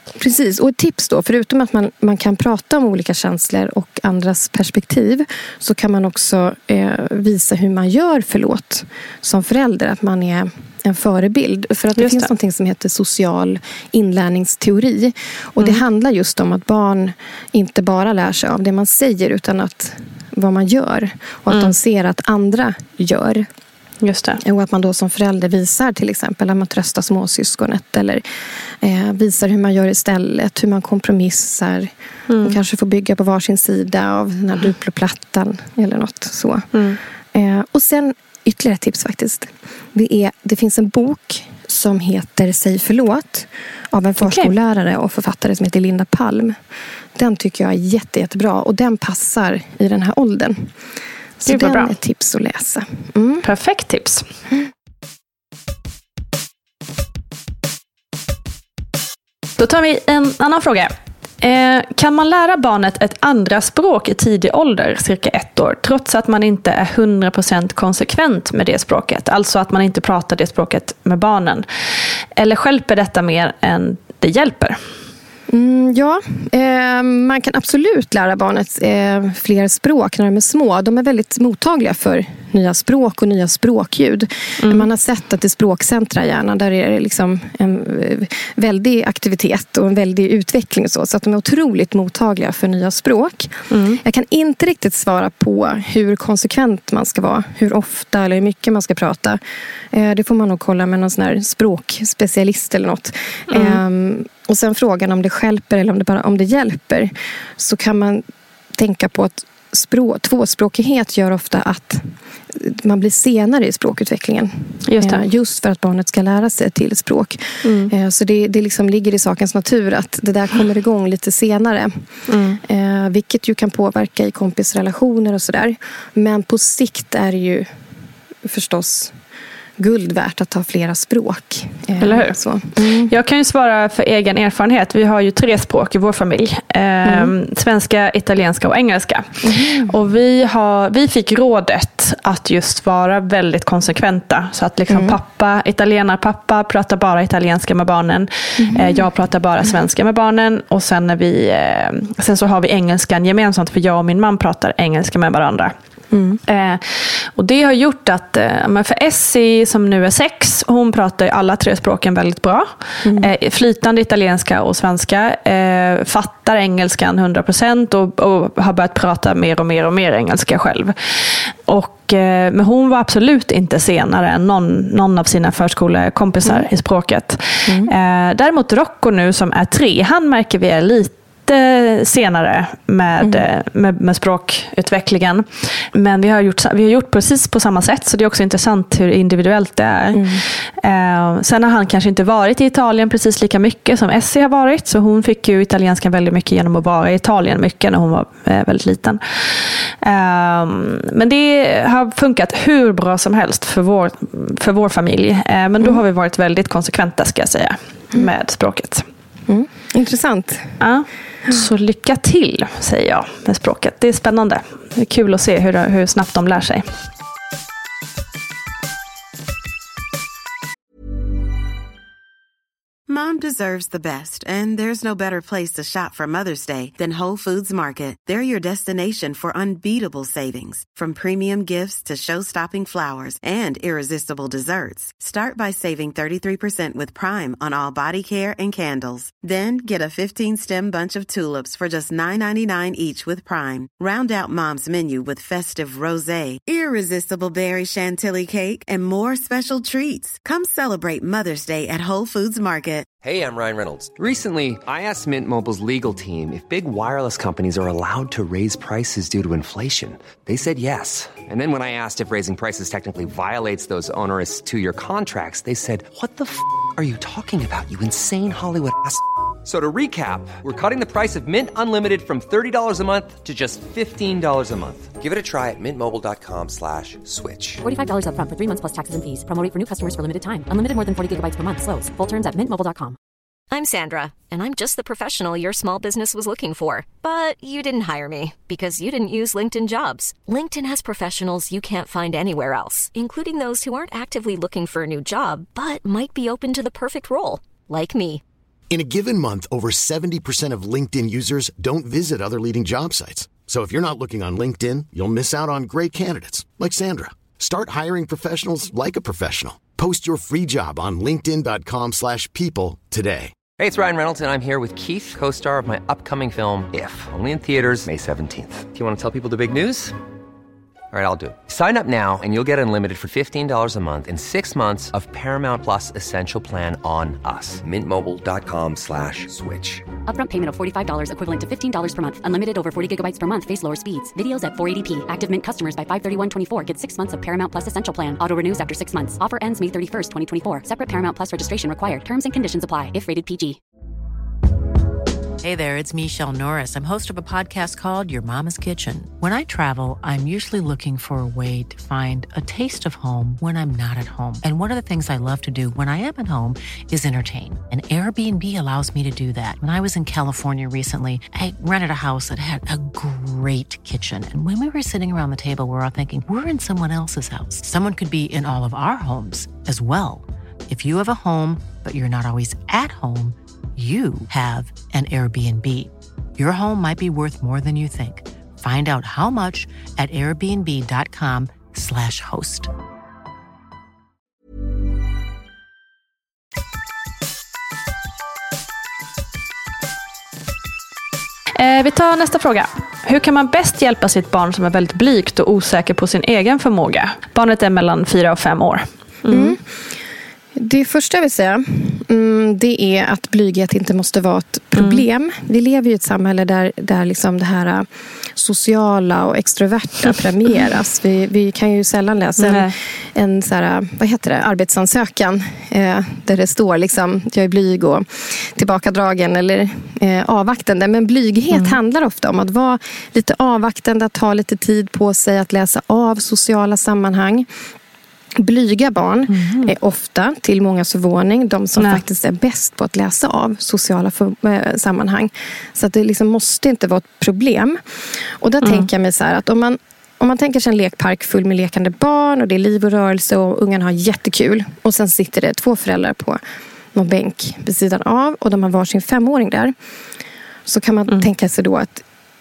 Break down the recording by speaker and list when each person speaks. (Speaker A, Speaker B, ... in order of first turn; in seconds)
Speaker A: 0.1-23.5, 24.4-28.2, 28.8-36.7, 37.3-46.6, 47.1-50.7, 51.4-53.5, 75.5-99.4, 99.9-108.2, 108.8-122.0, 122.6-127.7, 128.4-129.1, 129.8-133.1, 137.0-137.3, 139.4-139.9, 144.9-145.2, 148.6-149.0, 156.1-156.4, 163.0-163.3, 176.4-176.7, 177.7-177.9, 183.2-183.4, 190.1-190.4, 209.5-210.8, 399.5-399.8, 400.7-427.7, 428.6-438.0, 438.6-446.6, 447.1-449.9, 450.9-452.2
Speaker B: 11.9-12.3, 24.0-24.4, 32.3-32.6, 36.7-37.0, 44.2-44.5, 51.5-51.9, 53.4-54.2, 59.6-71.7, 72.4-74.8, 84.6-84.9, 93.7-94.0, 103.5-103.8, 114.9-115.2, 117.6-117.9, 122.3-122.6, 132.0-132.4, 133.1-155.7, 156.5-156.8, 157.3-170.9, 171.7-190.2, 190.8-209.0, 210.8-216.8, 391.8-399.7, 404.9-405.2, 412.6-412.9, 429.5-429.9, 438.8-439.1
Speaker C: 223.1-253.1
Speaker D: 253.2-277.8, 313.8-320.1, 321.1-330.0
Speaker E: 277.8-283.2, 330.3-343.8
Speaker F: 283.7-298.4
Speaker G: 298.9-313.5
Speaker H: 345.6-382.9